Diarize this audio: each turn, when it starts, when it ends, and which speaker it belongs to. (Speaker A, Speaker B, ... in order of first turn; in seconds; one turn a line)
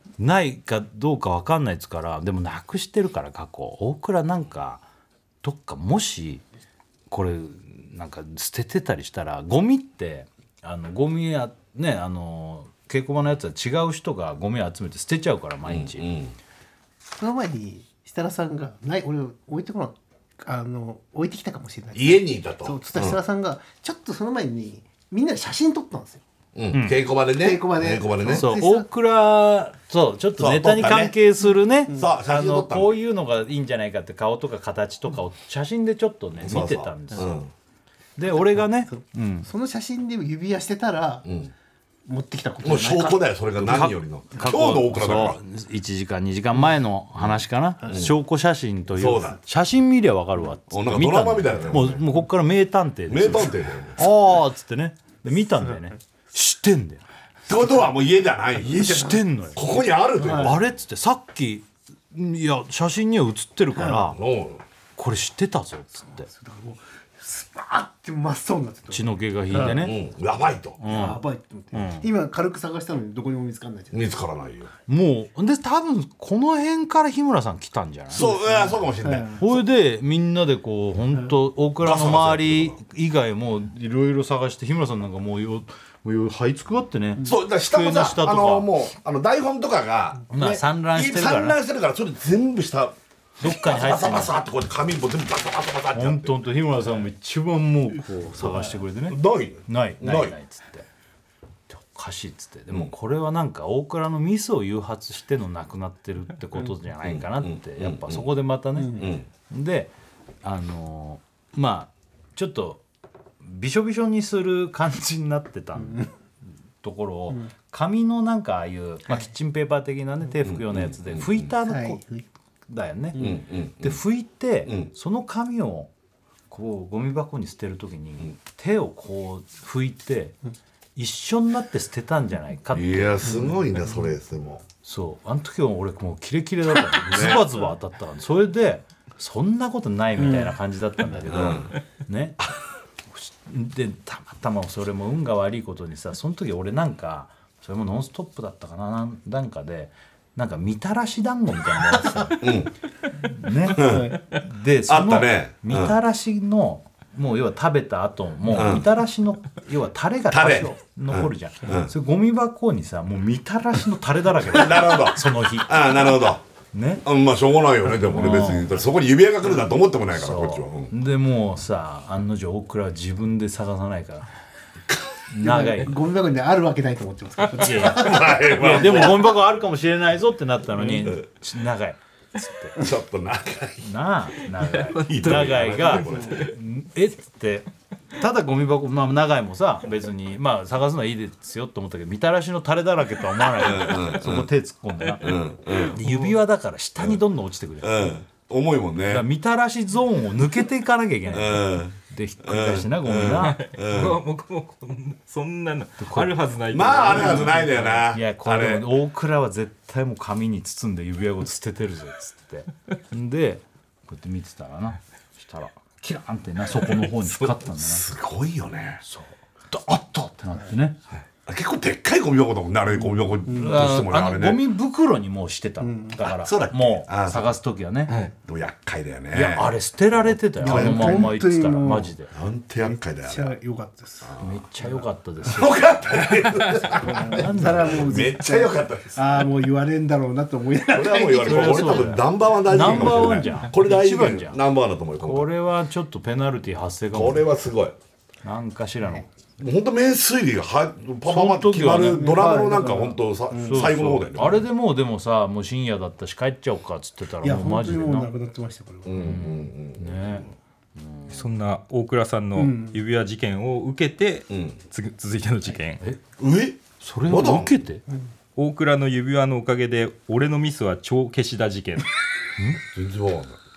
Speaker A: 0.2-4.8
Speaker A: 5.4-6.4
Speaker A: 7.1-16.1
Speaker B: 15.6-16.4
Speaker C: 17.2-26.2
Speaker B: 21.9-23.2
Speaker B: 26.5-28.5
Speaker A: 26.7-27.0
Speaker C: 27.3-28.9
Speaker A: 28.3-37.4
Speaker B: 30.4-31.1
Speaker C: 31.9-32.1
Speaker B: 31.9-33.0
Speaker B: 36.4-37.5
Speaker A: 38.2-39.5
Speaker C: 38.6-41.3
Speaker B: 41.2-41.5
Speaker C: 42.1-43.4
Speaker B: 42.6-45.4
Speaker A: 43.6-57.0
Speaker B: 47.9-48.1
Speaker B: 49.0-49.4
Speaker B: 50.7-52.0
Speaker B: 53.1-54.0
Speaker B: 57.5-60.6
Speaker A: 58.7-59.6
Speaker C: 58.8-59.2
Speaker C: 60.2-60.5
Speaker A: 60.3-64.2
Speaker B: 64.0-64.6
Speaker A: 65.0-66.3
Speaker C: 66.2-69.8
Speaker A: 68.9-70.0
Speaker B: 69.5-70.9
Speaker A: 70.8-72.1
Speaker C: 70.8-74.1
Speaker B: 73.9-74.7
Speaker A: 74.9-78.2
Speaker B: 78.1-79.6
Speaker C: 78.2-79.4
Speaker A: 79.4-88.7
Speaker B: 81.8-82.8
Speaker B: 87.2-96.4
Speaker A: 90.3-91.6
Speaker A: 93.4-94.3
Speaker A: 95.9-100.8
Speaker B: 98.4-100.3
Speaker A: 101.7-112.8
Speaker B: 107.0-108.3
Speaker C: 108.8-109.1
Speaker B: 109.0-109.3
Speaker A: 113.4-116.0
Speaker C: 115.8-116.1
Speaker A: 116.8-122.0
Speaker B: 120.4-121.5
Speaker C: 121.6-122.2
Speaker A: 122.7-125.9
Speaker B: 123.2-124.0
Speaker A: 126.5-130.4
Speaker A: 130.9-133.5
Speaker B: 132.7-134.6
Speaker A: 134.8-142.4
Speaker B: 137.0-137.5
Speaker B: 141.3-141.7
Speaker A: 143.1-152.6
Speaker B: 152.4-152.7
Speaker A: 153.2-166.0
Speaker B: 153.6-154.2
Speaker C: 153.8-154.1
Speaker B: 154.8-155.9
Speaker B: 158.5-158.9
Speaker B: 160.3-161.9
Speaker B: 164.4-166.4
Speaker A: 166.7-167.0
Speaker B: 167.0-170.9
Speaker A: 168.0-168.8
Speaker A: 170.1-174.3
Speaker A: 175.3-175.9
Speaker C: 175.4-179.3
Speaker A: 177.6-182.8
Speaker B: 177.8-179.3
Speaker C: 180.8-181.1
Speaker B: 182.8-183.9
Speaker A: 183.8-198.1
Speaker D: 184.6-186.5
Speaker B: 184.9-186.5
Speaker C: 186.0-186.4
Speaker B: 193.5-194.5
Speaker B: 195.2-196.0
Speaker D: 196.0-196.4
Speaker B: 197.8-199.3
Speaker A: 199.1-203.6
Speaker B: 201.3-204.2
Speaker D: 203.4-207.8
Speaker A: 206.0-206.4
Speaker B: 206.7-208.9
Speaker A: 206.9-218.1
Speaker B: 217.7-219.0
Speaker A: 219.0-221.0
Speaker B: 221.4-224.6
Speaker C: 223.4-223.8
Speaker A: 223.5-228.2
Speaker C: 225.8-226.2
Speaker B: 226.2-227.5
Speaker B: 228.4-231.4
Speaker A: 229.3-232.3
Speaker C: 230.6-232.1
Speaker B: 232.3-233.6
Speaker C: 232.8-234.9
Speaker B: 234.2-234.6
Speaker A: 234.4-235.8
Speaker B: 235.4-239.4
Speaker C: 237.0-243.4
Speaker A: 237.3-238.2
Speaker B: 240.9-245.5
Speaker A: 241.4-244.6
Speaker A: 245.2-247.5
Speaker B: 247.1-247.9
Speaker A: 248.4-249.3
Speaker B: 249.6-254.7
Speaker A: 251.2-252.5
Speaker C: 251.9-253.9
Speaker A: 253.7-258.3
Speaker C: 257.4-259.4
Speaker B: 259.0-260.5
Speaker A: 259.2-261.5
Speaker D: 261.3-266.0
Speaker C: 262.6-263.0
Speaker B: 264.5-264.8
Speaker B: 266.4-267.8
Speaker A: 267.0-268.0
Speaker D: 268.6-272.1
Speaker B: 272.8-273.6